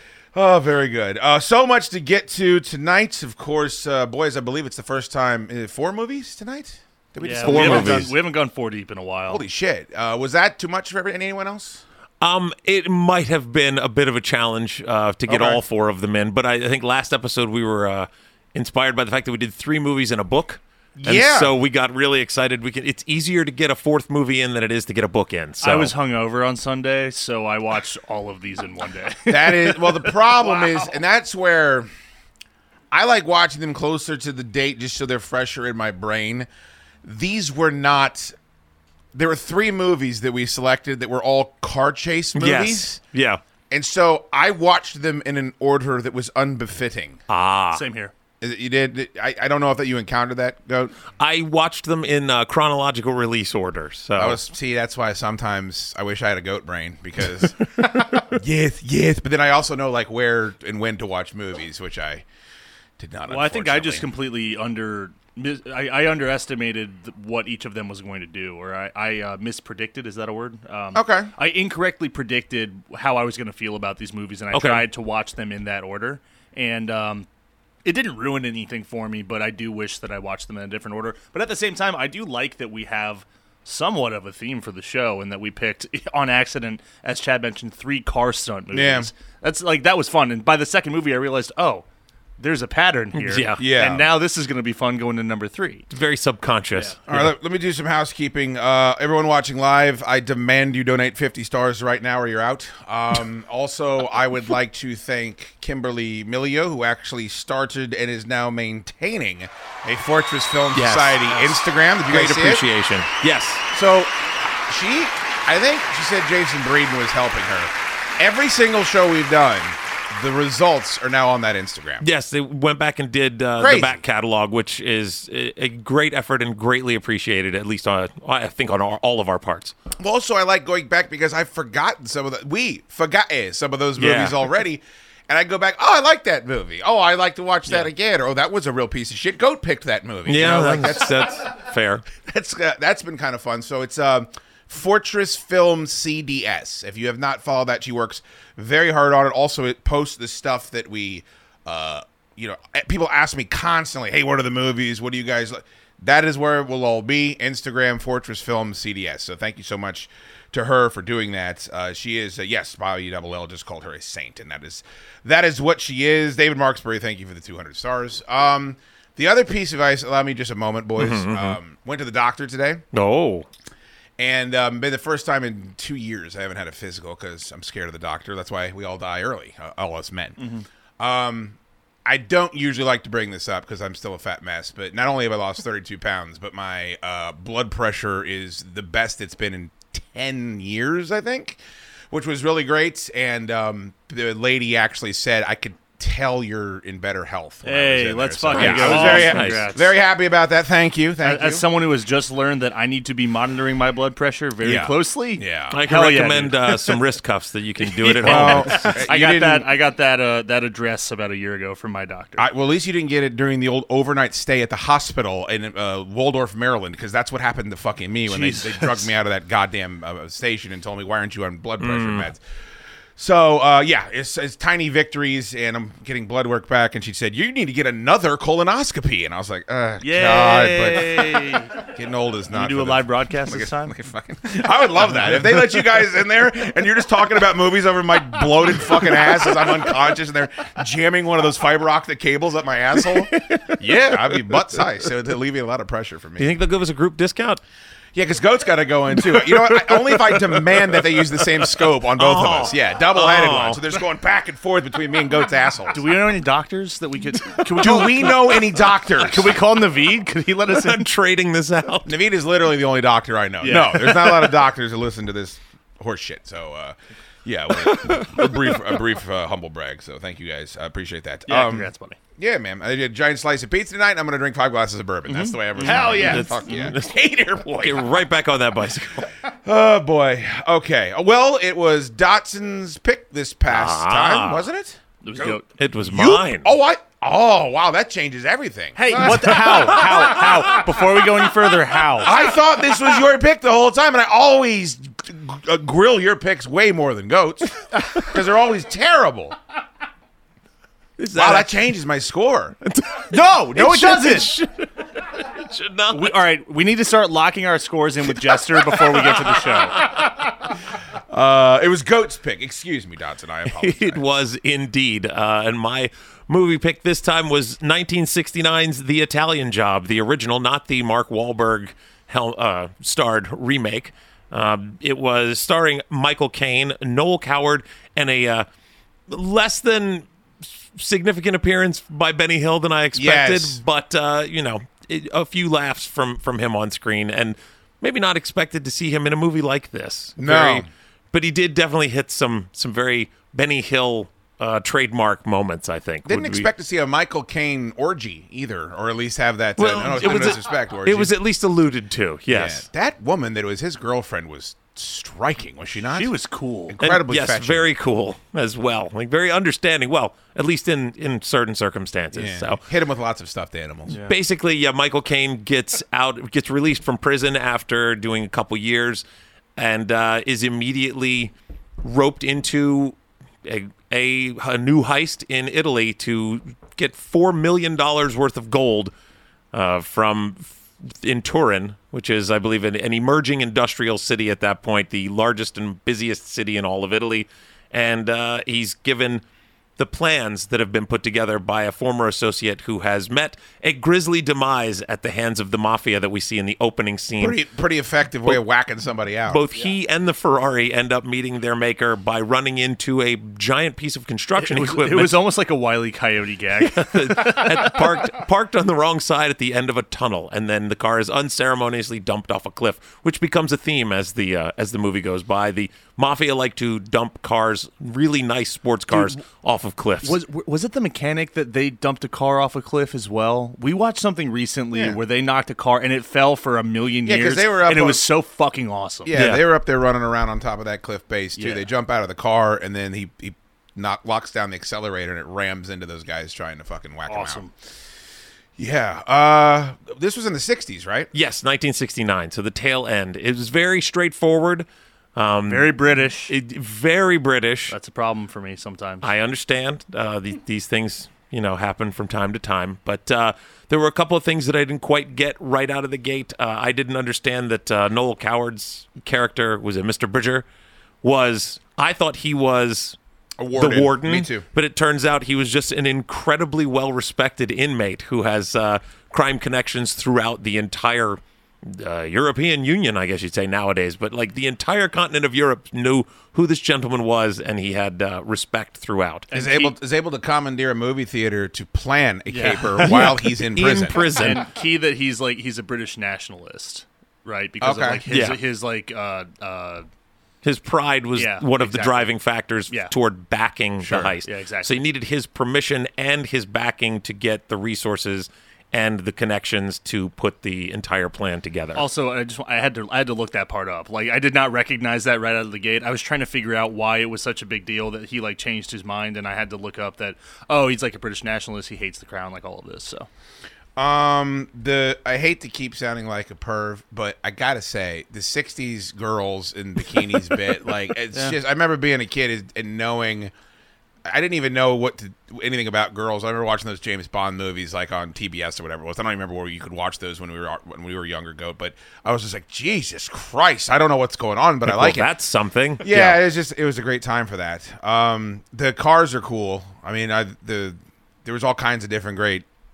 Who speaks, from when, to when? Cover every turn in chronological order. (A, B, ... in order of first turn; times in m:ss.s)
0:00.3-0:08.1 A
0:07.2-0:09.4 B
0:07.4-0:08.1 C
0:09.3-0:11.8 A
0:12.2-0:25.9 C
0:15.3-0:15.6 A
0:21.0-0:21.5 A
0:25.6-0:31.0 B
0:29.3-0:31.9 A
0:32.9-0:36.5 A
0:37.0-0:38.3 A
0:39.1-0:43.0 A
0:42.3-0:43.4 C
0:43.7-0:47.2 A
0:47.3-0:47.8 C
0:47.7-0:48.1 B
0:48.4-0:50.9 A
0:51.2-0:54.4 C
0:54.2-1:02.2 A
1:03.0-1:04.1 A
1:03.3-1:17.3 B
1:10.9-1:11.3 A
1:14.5-1:14.8 C
1:17.8-1:31.8 B
1:28.7-1:29.1 A
1:32.4-1:35.9 B
1:33.1-1:33.6 C
1:33.6-1:34.1 A
1:35.9-1:37.3 C
1:37.1-1:52.6 A
1:50.7-1:53.6 C
1:53.7-1:54.1 A
1:54.7-2:02.0 A
2:02.0-2:09.7 C
2:03.6-2:04.0 A
2:10.0-2:21.5 A
2:14.0-2:14.4 C
2:20.3-2:22.0 C
2:22.2-2:52.8 A
2:51.0-2:51.6 C
2:52.9-2:53.5 C
2:54.2-3:00.4 A
3:00.4-3:00.6 B
3:01.0-3:11.6 A
3:12.1-3:21.6 A
3:17.6-3:19.9 B
3:18.5-3:19.7 C
3:21.2-3:26.8 B
3:24.6-3:25.8 A
3:25.7-3:29.0 C
3:28.0-3:32.5 B
3:28.2-3:29.7 A
3:32.4-3:42.4 A
3:38.3-3:39.1 B
3:41.8-3:42.3 C
3:43.2-4:06.6 A
3:50.0-3:51.7 B
3:52.5-3:53.9 B
4:03.3-4:04.6 C
4:06.4-4:07.6 C
4:08.1-4:16.1 A
4:09.4-4:10.8 C
4:12.2-4:13.8 C
4:15.9-4:21.1 B
4:17.8-4:19.6 A
4:20.7-4:22.2 C
4:22.0-4:38.1 A
4:23.6-4:24.3 B
4:27.8-4:28.8 C
4:31.5-4:32.2 B
4:35.3-4:36.9 B
4:35.8-4:39.3 C
4:39.5-4:50.8 A
4:43.7-4:44.6 C
4:45.2-4:45.6 B
4:45.7-4:46.7 C
4:49.0-4:52.4 B
4:52.2-4:59.6 A
5:01.2-5:01.9 C
5:01.3-5:02.8 A
5:02.8-5:06.4 C
5:03.3-5:04.6 B
5:06.1-5:10.0 B
5:08.6-5:10.4 C
5:11.3-5:14.2 A
5:13.7-5:28.7 C
5:29.3-5:30.2 C
5:30.9-5:46.7 C
5:33.1-5:33.8 A
5:40.4-5:40.9 A
5:46.2-5:51.3 A
5:49.8-5:52.8 C
5:52.5-5:56.3 A
5:56.1-5:57.0 B
5:56.9-5:57.9 A
5:57.0-6:02.8 C
6:02.3-6:04.2 A
6:04.2-6:09.2 C
6:09.8-6:19.1 C
6:19.7-6:29.4 C
6:30.0-6:37.6 C
6:37.4-6:39.6 A
6:39.5-6:45.4 C
6:44.6-6:48.3 B
6:46.8-7:00.4 C
6:59.1-6:59.4 B
7:00.2-7:09.3 B
7:07.2-7:08.2 A
7:09.2-7:17.6 A
7:09.3-7:09.6 C
7:11.6-7:11.8 B
7:17.3-7:17.7 B
7:18.8-7:21.3 A
7:21.3-7:27.9 C
7:25.6-7:26.5 B
7:27.9-7:29.3 B
7:29.2-7:40.6 C
7:41.2-7:43.2 C
7:43.6-7:44.6 A
7:43.7-7:59.5 C
7:59.5-8:00.0 B
7:59.5-8:04.2 A
8:02.5-8:03.3 B
8:03.0-8:04.7 C
8:04.2-8:10.1 B
8:07.8-8:08.2 A
8:08.3-8:08.6 C
8:10.6-8:22.0 C
8:11.4-8:12.3 B
8:14.0-8:14.3 A
8:14.4-8:15.0 B
8:21.9-8:33.3 B
8:34.0-8:43.5 A
8:44.2-8:55.3 A
8:54.8-8:56.4 C
8:56.0-9:02.6 A